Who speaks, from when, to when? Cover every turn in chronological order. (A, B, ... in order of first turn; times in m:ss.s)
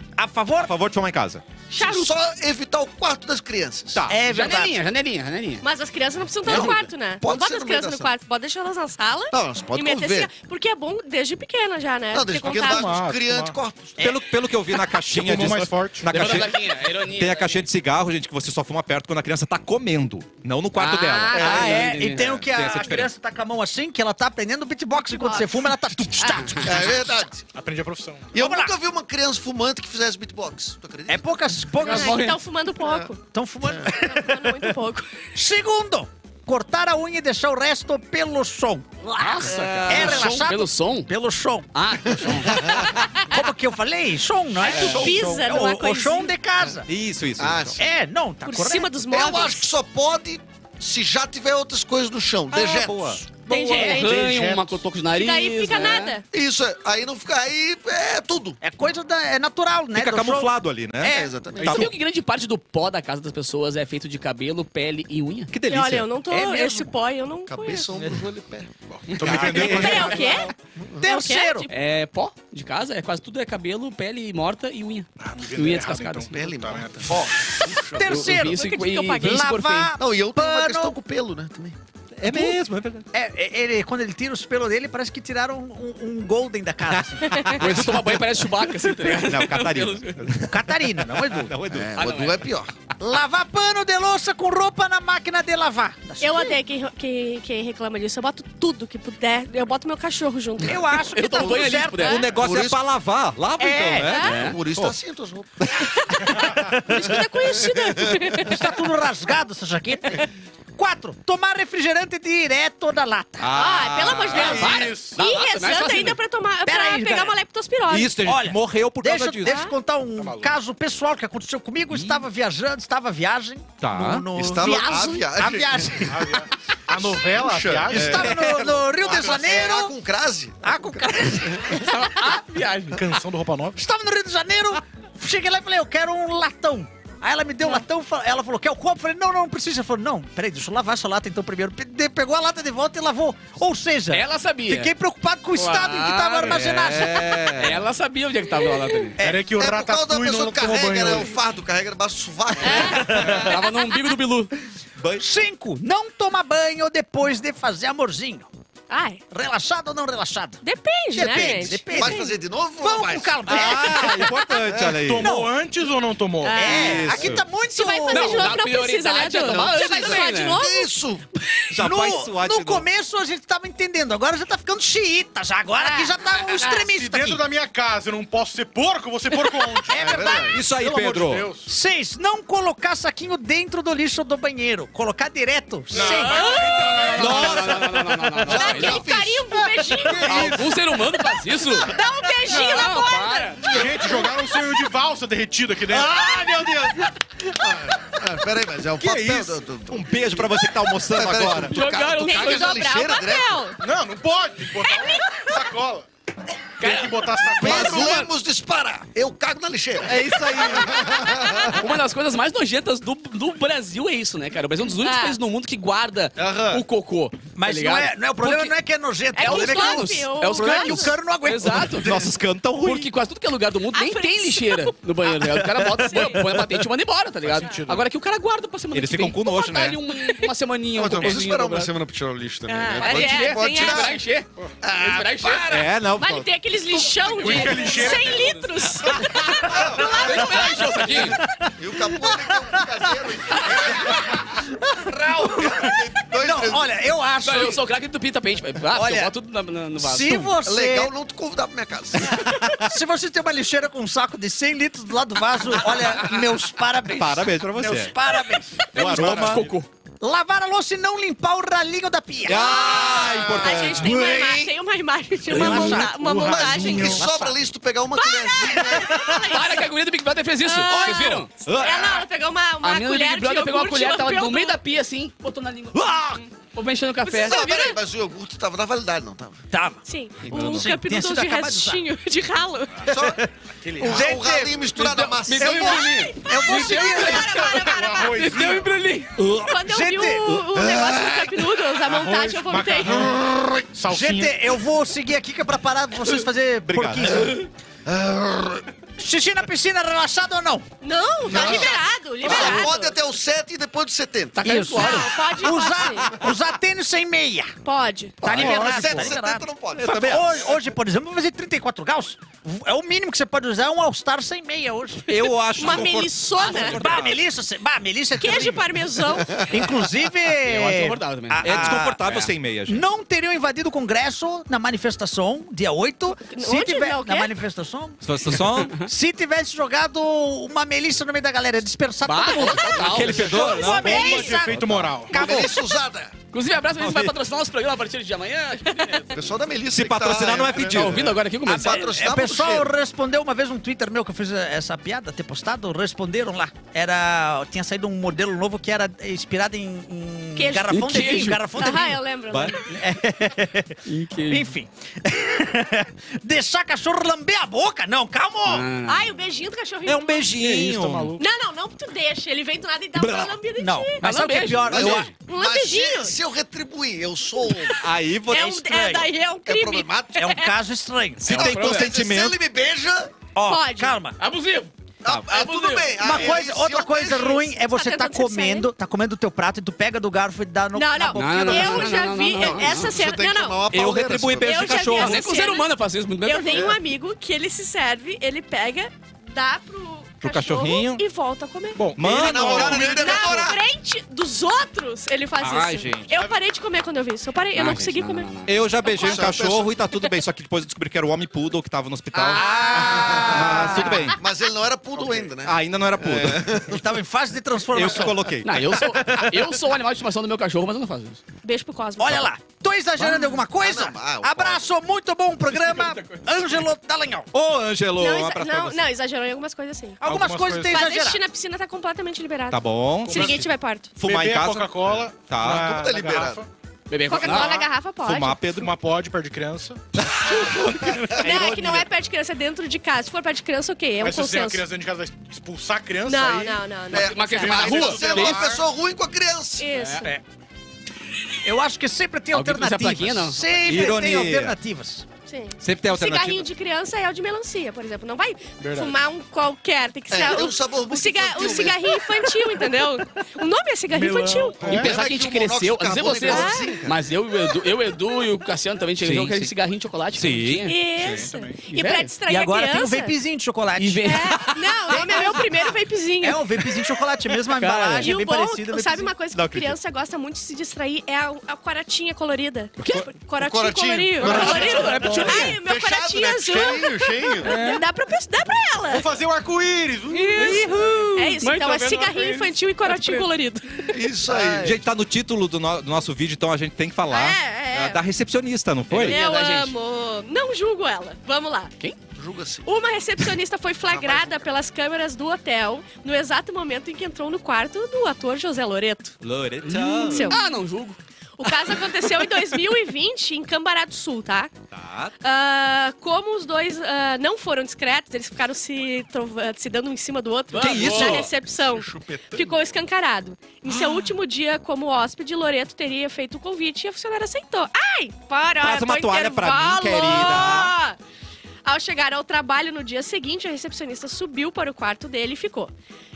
0:00.2-0:00.8 A
0:00.6-0:01.5 B
0:01.7-0:02.1 C
0:01.7-0:04.1 D
0:03.9-0:04.2 B
0:04.1-0:04.8 A
0:04.3-0:05.7 E
0:05.6-0:13.0 C
0:06.5-0:08.1 D
0:09.3-0:10.3 D
0:12.1-0:14.0 D
0:12.5-0:13.6 F
0:14.0-0:23.1 B
0:15.0-0:16.4 F
0:16.1-0:17.7 E
0:20.8-0:22.3 E
0:21.3-0:27.3 A
0:25.0-0:25.6 C
0:26.2-0:26.5 C
0:26.6-0:27.4 D
0:27.5-0:28.3 F
0:28.3-0:28.7 A
0:28.3-0:31.3 D
0:31.1-0:32.3 A
0:31.8-0:32.4 E
0:31.8-0:33.2 C
0:32.8-0:33.1 D
0:33.3-0:34.7 A
0:33.8-0:35.1 C
0:35.4-0:42.0 A
0:39.0-0:41.1 E
0:39.5-0:40.2 B
0:41.7-0:42.7 E
0:42.1-0:42.9 D
0:43.0-0:43.4 C
0:43.3-0:46.9 A
0:44.6-0:46.3 C
0:44.7-0:45.2 D
0:46.9-0:47.8 B
0:47.4-0:47.8 D
0:47.8-0:48.9 A
0:48.4-0:49.7 C
0:49.1-0:53.2 D
0:52.5-0:53.2 B
0:53.5-0:54.0 A
0:53.5-0:54.2 C
0:53.6-0:54.8 F
0:53.8-0:56.2 E
0:55.1-0:56.2 C
0:56.3-0:58.6 D
0:58.6-1:01.3 A
1:00.0-1:01.9 B
1:01.0-1:01.9 D
1:01.6-1:05.5 E
1:05.5-1:06.1 B
1:05.7-1:07.9 C
1:06.3-1:06.9 A
1:07.5-1:11.1 D
1:09.0-1:10.4 F
1:09.2-1:10.2 B
1:09.7-1:11.7 C
1:11.0-1:11.7 A
1:11.7-1:16.3 E
1:15.2-1:17.3 F
1:16.3-1:18.0 D
1:17.6-1:21.0 A
1:17.9-1:19.9 E
1:18.4-1:19.5 C
1:20.0-1:21.8 D
1:22.2-1:23.1 B
1:22.2-1:22.6 A
1:23.1-1:27.9 A
1:27.0-1:28.2 B
1:27.6-1:30.2 E
1:29.1-1:32.1 B
1:30.4-1:31.6 A
1:31.7-1:32.7 D
1:32.0-1:32.5 E
1:33.0-1:36.6 A
1:36.2-1:40.8 C
1:40.6-1:42.2 A
1:41.1-1:42.2 E
1:42.0-1:42.3 C
1:42.0-1:45.0 B
1:42.4-1:42.8 D
1:43.6-1:44.2 A
1:44.0-1:44.5 C
1:44.2-1:44.6 E
1:44.4-1:45.7 D
1:45.8-1:48.6 C
1:46.4-1:47.1 A
1:47.5-1:48.5 D
1:48.4-1:53.5 A
1:53.4-1:54.8 B
1:53.5-1:58.2 C
1:54.3-1:56.2 E
1:54.3-1:55.2 F
1:56.7-1:57.4 A
1:57.9-1:59.6 B
1:58.2-2:06.5 A
1:59.4-1:59.7 C
2:00.2-2:00.5 F
2:01.9-2:02.2 B
2:03.8-2:04.3 B
2:04.3-2:06.1 D
2:04.6-2:05.1 C
2:06.1-2:09.5 F
2:07.0-2:11.9 D
2:07.9-2:10.0 A
2:10.6-2:12.4 A
2:11.8-2:13.0 E
2:12.9-2:13.8 F
2:13.8-2:27.6 A
2:24.1-2:24.9 E
2:25.5-2:26.7 E
2:26.5-2:27.8 B
2:27.6-2:29.2 E
2:29.2-2:31.3 F
2:29.5-2:33.4 D
2:32.6-2:34.5 E
2:32.6-2:33.7 C
2:32.9-2:33.4 A
2:35.0-2:35.3 B
2:35.2-2:38.5 A
2:38.9-2:39.2 C
2:39.3-2:40.6 A
2:40.6-2:42.3 C
2:41.1-2:44.4 A
2:41.9-2:43.7 D
2:43.5-2:45.3 B
2:44.8-2:46.7 F
2:45.2-2:45.5 A
2:46.4-2:51.7 C
2:46.5-2:48.5 A
2:46.6-2:47.4 B
2:48.1-2:50.6 E
2:49.7-2:51.3 D
2:51.7-2:52.8 B
2:51.8-2:57.4 A
2:55.8-2:56.9 C
2:56.7-3:01.7 F
2:59.4-3:00.4 C
2:59.9-3:00.6 D
3:00.5-3:01.5 B
3:01.7-3:06.4 A
3:05.9-3:07.6 F
3:06.3-3:07.1 C
3:06.5-3:09.0 E
3:06.8-3:09.5 D
3:07.1-3:08.2 B
3:08.5-3:10.6 C
3:10.0-3:10.7 F
3:10.2-3:11.9 E
3:11.8-3:13.8 C
3:12.5-3:13.6 E
3:13.6-3:14.4 D
3:13.7-3:16.2 F
3:15.9-3:23.6 D
3:19.0-3:21.8 B
3:21.7-3:22.8 E
3:22.2-3:23.8 C
3:23.8-3:26.1 F
3:24.9-3:25.5 C
3:26.8-3:28.2 E
3:26.8-3:28.2 F
3:27.6-3:31.8 D
3:27.6-3:28.3 A
3:30.0-3:31.1 B
3:30.8-3:31.5 C
3:31.7-3:38.7 E
3:34.9-3:35.4 C
3:36.4-3:36.8 D
3:37.6-3:42.2 A
3:39.3-3:41.2 C
3:39.4-3:42.2 E
3:42.0-3:43.1 B
3:42.8-3:51.9 E
3:43.9-3:46.4 C
3:45.4-3:46.8 A
3:47.4-3:48.1 F
3:48.9-3:50.0 B
3:50.1-3:50.5 C
3:50.9-3:54.2 D
3:52.7-3:54.2 C
3:53.0-3:55.8 E
3:54.8-3:57.6 D
3:55.7-3:56.5 B
3:56.2-4:01.2 C
3:57.3-3:59.2 E
3:57.4-3:58.4 F
3:59.1-3:59.8 B
3:59.6-4:04.6 D
3:59.9-4:01.4 E
4:01.2-4:07.8 A
4:05.1-4:06.9 D
4:07.4-4:10.6 E
4:08.9-4:09.3 A
4:10.0-4:11.1 A
4:10.6-4:12.5 D
4:12.2-4:18.8 A
4:17.2-4:18.2 B
4:18.9-4:19.9 E
4:18.9-4:19.6 B
4:19.2-4:19.6 D
4:20.2-4:22.8 A
4:22.4-4:24.2 B
4:22.5-4:27.3 C
4:22.7-4:24.7 D
4:25.5-4:26.1 A
4:25.5-4:26.0 B
4:25.5-4:27.2 F
4:26.3-4:29.4 D
4:26.8-4:27.5 A
4:28.2-4:29.9 C
4:28.8-4:29.4 A
4:29.5-4:31.5 E
4:30.6-4:34.8 C
4:30.9-4:31.4 A
4:31.6-4:32.3 B
4:32.8-4:37.9 E
4:35.9-4:36.4 A
4:37.3-4:37.9 C
4:37.4-4:39.6 D
4:39.7-4:42.0 A
4:40.0-4:43.1 C
4:40.6-4:40.9 B
4:43.1-4:43.4 D
4:43.1-4:44.9 A
4:43.8-4:44.2 F
4:44.0-4:46.2 D
4:45.0-4:49.3 E
4:45.6-4:45.8 A
4:45.7-4:48.5 C
4:46.4-4:47.7 A
4:47.4-4:48.9 F
4:49.4-4:49.6 B
4:49.4-4:50.7 A
4:49.7-4:53.2 C
4:50.8-4:51.7 D
4:52.0-4:53.4 F
4:53.1-4:53.9 D
4:53.9-4:54.6 F
4:54.1-4:57.6 A
4:56.9-4:57.6 B
4:58.1-4:58.9 D
4:59.2-5:00.9 A
5:01.0-5:03.2 C
5:01.5-5:04.8 D
5:02.4-5:02.7 A
5:04.6-5:05.5 E
5:04.6-5:07.7 A
5:05.0-5:06.3 C
5:07.8-5:08.4 C
5:08.4-5:15.4 A
5:08.4-5:10.8 D
5:08.5-5:09.3 B
5:10.0-5:10.5 B
5:15.3-5:17.4 B
5:15.7-5:17.0 C
5:16.6-5:17.2 E
5:17.0-5:19.0 A
5:18.4-5:19.7 C
5:19.6-5:28.2 A
5:20.5-5:22.5 E
5:21.6-5:23.0 B
5:26.5-5:27.5 C
5:28.2-5:29.0 B
5:29.0-5:35.7 A
5:32.2-5:33.9 E
5:32.6-5:33.1 C
5:32.9-5:35.2 B
5:33.7-5:34.5 C
5:33.7-5:35.5 F
5:35.3-5:36.4 D
5:36.5-5:39.4 E
5:37.0-5:37.3 B
5:38.9-5:39.2 C
5:39.3-5:42.9 D
5:39.9-5:41.4 B
5:40.9-5:42.1 E
5:41.6-5:52.2 A
5:50.6-5:53.0 C
5:50.9-5:51.6 E
5:52.9-5:58.9 A
5:54.1-5:54.7 E
5:58.7-5:59.2 E
5:59.0-6:00.6 C
6:00.1-6:01.4 B
6:00.6-6:01.4 F
6:01.4-6:04.3 C
6:03.2-6:03.6 B
6:03.8-6:05.3 A
6:04.2-6:05.2 E
6:04.9-6:05.3 B
6:04.9-6:08.0 D
6:05.3-6:06.4 C
6:07.6-6:10.7 C
6:08.0-6:09.3 B
6:09.7-6:10.6 D
6:10.4-6:11.5 A
6:11.4-6:12.6 B
6:11.5-6:13.4 D
6:11.5-6:12.1 E
6:13.6-6:14.4 A
6:13.6-6:14.2 C
6:14.4-6:14.9 E
6:15.2-6:17.6 D
6:15.5-6:16.3 E
6:16.2-6:22.1 A
6:17.2-6:18.9 C
6:20.9-6:23.9 C
6:21.4-6:23.2 E
6:22.6-6:25.1 D
6:23.9-6:25.5 B
6:24.6-6:25.9 C
6:25.1-6:27.0 E
6:26.4-6:32.1 C
6:30.4-6:31.2 B
6:32.0-6:33.5 F
6:32.2-6:33.2 B
6:32.2-6:33.8 D
6:33.0-6:39.4 C
6:35.6-6:36.3 B
6:37.8-6:38.8 E
6:38.6-6:44.4 B
6:39.1-6:40.0 D
6:42.5-6:44.3 A
6:42.5-6:43.0 C
6:42.5-6:43.5 E
6:43.1-6:47.0 D
6:45.2-6:45.4 E
6:45.6-6:46.7 B
6:46.9-6:49.5 A
6:47.9-6:48.8 B
6:48.6-6:51.4 E
6:49.2-6:49.4 D
6:51.6-6:52.5 C
6:52.2-6:57.5 A
6:53.7-6:54.8 D
6:55.7-6:56.6 E
6:57.5-6:59.1 B
6:58.2-7:00.2 C
7:00.2-7:01.4 A
7:00.2-7:01.0 F
7:00.8-7:04.2 C
7:02.7-7:05.9 B
7:03.2-7:03.7 F
7:04.2-7:06.7 F
7:05.6-7:06.6 D
7:07.1-7:07.9 E
7:07.3-7:08.7 C
7:07.4-7:07.7 B
7:08.2-7:08.9 B
7:08.7-7:10.0 F
7:10.2-7:12.1 B
7:11.4-7:14.8 C
7:14.2-7:16.9 F
7:16.2-7:18.1 C
7:17.1-7:18.8 E
7:17.1-7:19.9 D
7:17.6-7:18.8 F
7:19.8-7:20.4 C
7:19.9-7:20.2 E
7:21.6-7:25.3 A
7:22.5-7:23.6 E
7:23.8-7:24.8 B
7:25.5-7:35.0 C
7:25.8-7:26.7 B
7:28.8-7:29.2 F
7:30.3-7:32.3 D
7:34.1-7:35.1 F
7:34.8-7:41.0 E
7:34.8-7:37.2 D
7:36.4-7:37.0 C
7:39.2-7:39.7 B
7:40.4-7:41.3 B
7:40.8-7:43.3 C
7:41.2-7:41.8 F
7:41.9-7:42.3 E
7:42.5-7:44.6 A
7:44.0-7:44.7 E
7:44.2-7:46.6 C
7:44.7-7:45.2 B
7:45.2-7:45.6 A
7:46.4-7:49.3 A
7:47.7-7:48.4 B
7:48.2-7:59.4 C
7:49.5-7:50.0 B
7:53.0-7:53.3 E
7:53.6-7:57.8 D
7:54.4-7:55.8 E
7:55.2-7:55.7 F
7:57.6-7:58.0 E
7:59.1-8:03.4 F
8:00.3-8:04.2 C
8:00.6-8:02.6 E
8:04.1-8:05.0 D
8:04.5-8:09.4 B
8:07.2-8:08.2 C
8:09.1-8:09.9 E
8:09.2-8:11.9 C
8:12.4-8:13.0 D
8:12.8-8:19.4 C
8:14.1-8:14.7 D
8:19.4-8:20.6 B
8:19.8-8:21.2 E
8:20.2-8:20.6 C
8:21.6-8:24.7 C
8:24.9-8:25.4 B
8:25.4-8:41.2 C
8:30.7-8:31.5 E
8:30.8-8:31.5 B
8:31.9-8:32.8 D
8:38.8-8:41.0 B
8:41.8-8:45.9 C